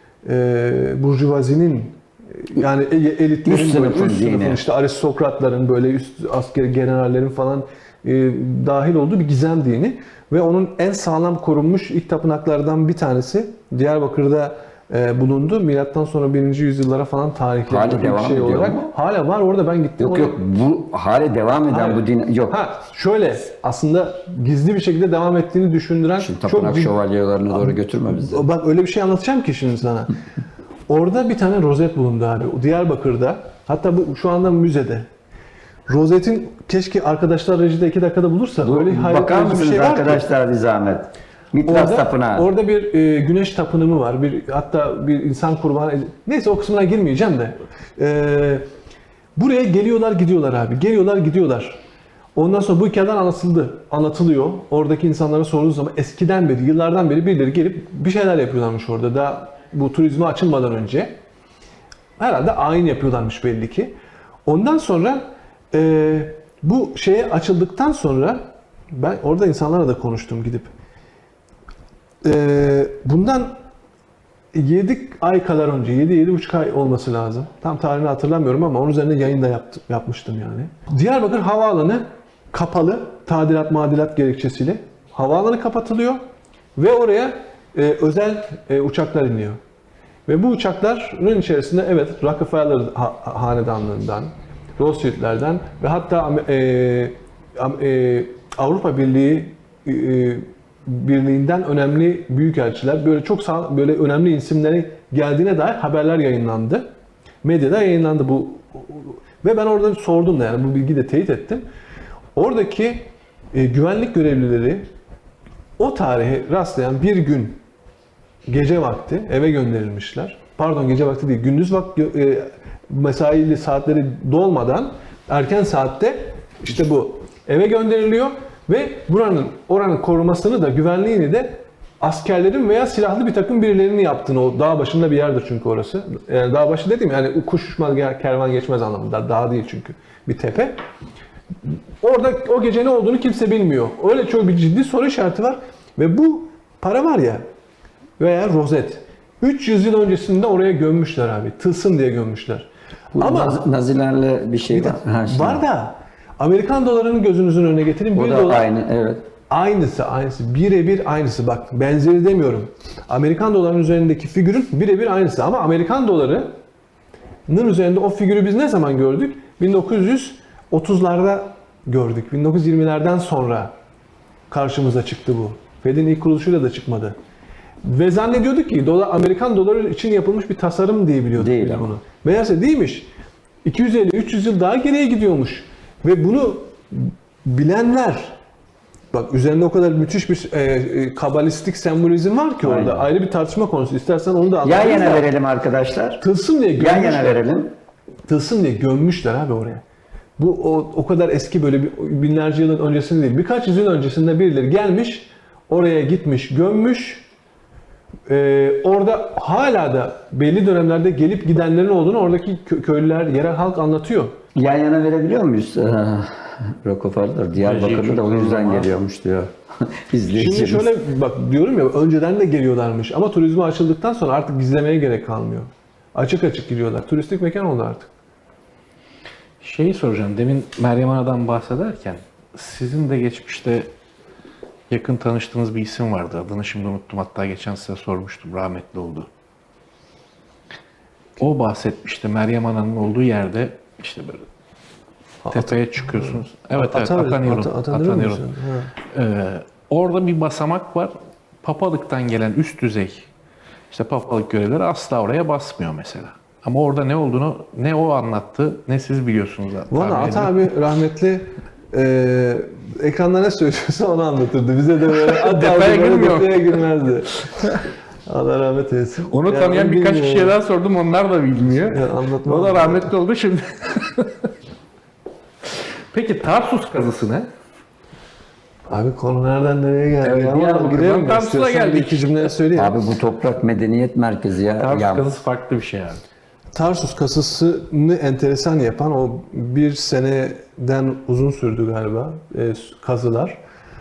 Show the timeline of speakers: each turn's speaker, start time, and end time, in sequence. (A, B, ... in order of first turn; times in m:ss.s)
0:00.2-0:20.4 A
0:03.4-0:04.6 B
0:17.7-0:18.9 B
0:20.0-0:22.5 B
0:21.7-0:26.9 A
0:26.2-0:28.4 B
0:27.5-0:30.1 A
0:30.9-0:35.0 A
0:35.9-0:40.2 A
0:38.6-0:42.5 B
0:41.6-0:48.6 A
0:49.4-0:51.8 A
0:52.3-1:01.2 A
1:02.2-1:03.9 A
1:04.4-1:10.7 A
1:12.2-1:13.5 A
1:14.5-1:26.2 A
1:26.8-1:29.6 A
1:30.3-1:46.9 A
1:47.4-1:51.6 A
1:52.3-1:54.9 A
1:55.8-1:57.6 A
1:58.5-2:20.8 A
2:21.6-2:27.4 A
2:28.2-2:33.6 A
2:33.1-2:35.6 B
2:34.7-2:38.7 A
2:38.1-2:39.2 B
2:39.5-2:46.5 A
2:47.5-2:53.7 A
2:54.5-2:57.1 A
2:57.8-3:03.1 A
3:01.4-3:02.0 B
3:03.6-3:08.4 A
3:09.1-3:15.3 A
3:12.6-3:13.0 B
3:14.6-3:16.2 B
3:16.2-3:17.4 A
3:16.8-3:17.7 B
3:18.3-3:19.8 A
3:20.4-3:27.3 A
3:28.3-3:34.4 A
3:34.6-3:39.5 B
3:37.6-3:38.9 C
3:40.1-3:40.9 B
3:40.3-3:48.1 A
3:49.6-3:53.9 C
3:54.9-3:59.3 C
4:01.4-4:04.4 C
4:05.4-4:08.9 A
4:05.5-4:08.4 C
4:09.1-4:13.3 C
4:13.9-4:20.6 C
4:19.9-4:30.6 A
4:25.1-4:26.8 C
4:29.3-4:34.5 C
4:31.8-4:33.1 A
4:36.1-4:37.5 C
4:38.9-4:43.0 A
4:40.2-4:42.5 C
4:42.7-4:45.2 B
4:44.8-4:46.2 C
4:46.7-4:53.6 A